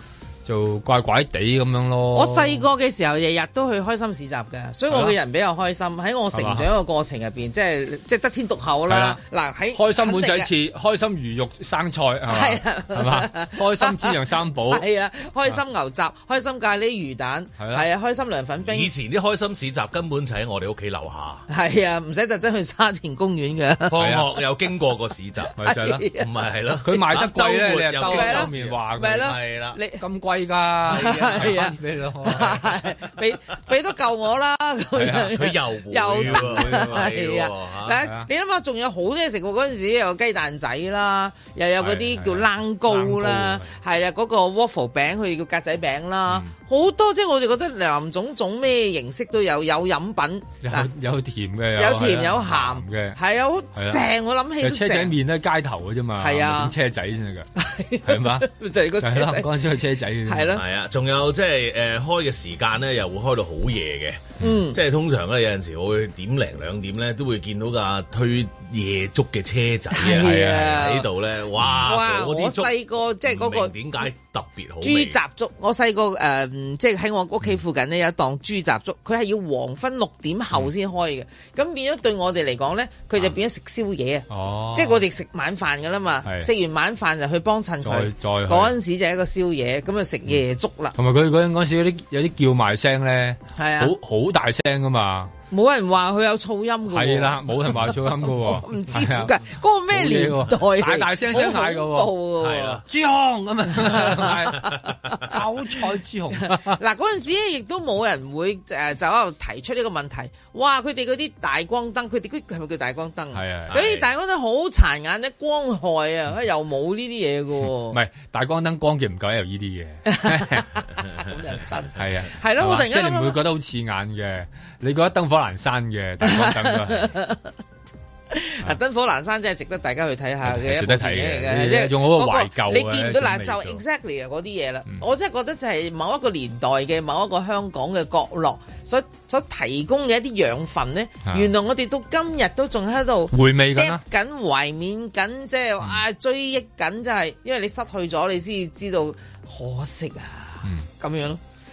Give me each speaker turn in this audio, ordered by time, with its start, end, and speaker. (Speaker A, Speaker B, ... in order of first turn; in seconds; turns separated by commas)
Speaker A: 0.4-2.6, Speaker B: 2.1-10.5, Speaker A: 4.9-5.1, Speaker A: 6.3-6.7, Speaker A: 8.9-9.2, Speaker A: 9.7-14.8, Speaker B: 12.3-18.9, Speaker A: 17.6-17.8, Speaker C: 18.6-21.5, Speaker B: 21.5-24.2, Speaker C: 23.9-25.5, Speaker A: 24.0-24.2, Speaker A: 25.6-26.0, Speaker B: 25.6-26.3, Speaker C: 26.1-29.8, Speaker A: 26.8-29.3, Speaker B: 28.0-30.0, Speaker A: 30.0-32.6, Speaker B: 30.9-50.9, Speaker C: 30.9-31.6, Speaker A: 35.0-35.3, Speaker C: 35.3-38.0, Speaker A: 36.1-37.1, Speaker A: 41.8-43.7, Speaker A: 50.6-53.2, Speaker B: 51.7-55.1, Speaker A: 53.7-54.0, Speaker A: 54.6-57.5, Speaker B: 56.2-56.7, Speaker B: 57.5-59.5, Speaker A: 58.0-58.5, Speaker A: 59.0-60.5, Speaker B: 60.2-60.6, Speaker C: 60.5-75.2, Speaker B: 64.4-64.8, Speaker B: 69.9-71.1, Speaker A: 70.0-70.7, Speaker A: 71.6-71.8, Speaker B: 71.7-73.7, Speaker B: 74.8-90.9, Speaker A: 84.3-85.0, Speaker A: 86.2-86.5, Speaker A: 87.8-88.7, Speaker A: 90.9-95.3, Speaker B: 93.6-93.9, Speaker B: 95.5-102.8, Speaker A: 96.9-99.3, Speaker A: 99.9-102.1, Speaker C: 102.4-102.8, Speaker A: 102.8-106.8, Speaker B: 103.8-105.4, Speaker B: 106.5-118.0, Speaker A: 113.3-113.8, Speaker C: 113.7-114.1, Speaker A: 117.9-120.7, Speaker B: 120.1-123.4, Speaker A: 121.9-127.1, Speaker B: 126.2-127.4, Speaker B: 128.3-151.4, Speaker A: 130.4-133.8, Speaker A: 141.2-141.5, Speaker A: 143.3-144.0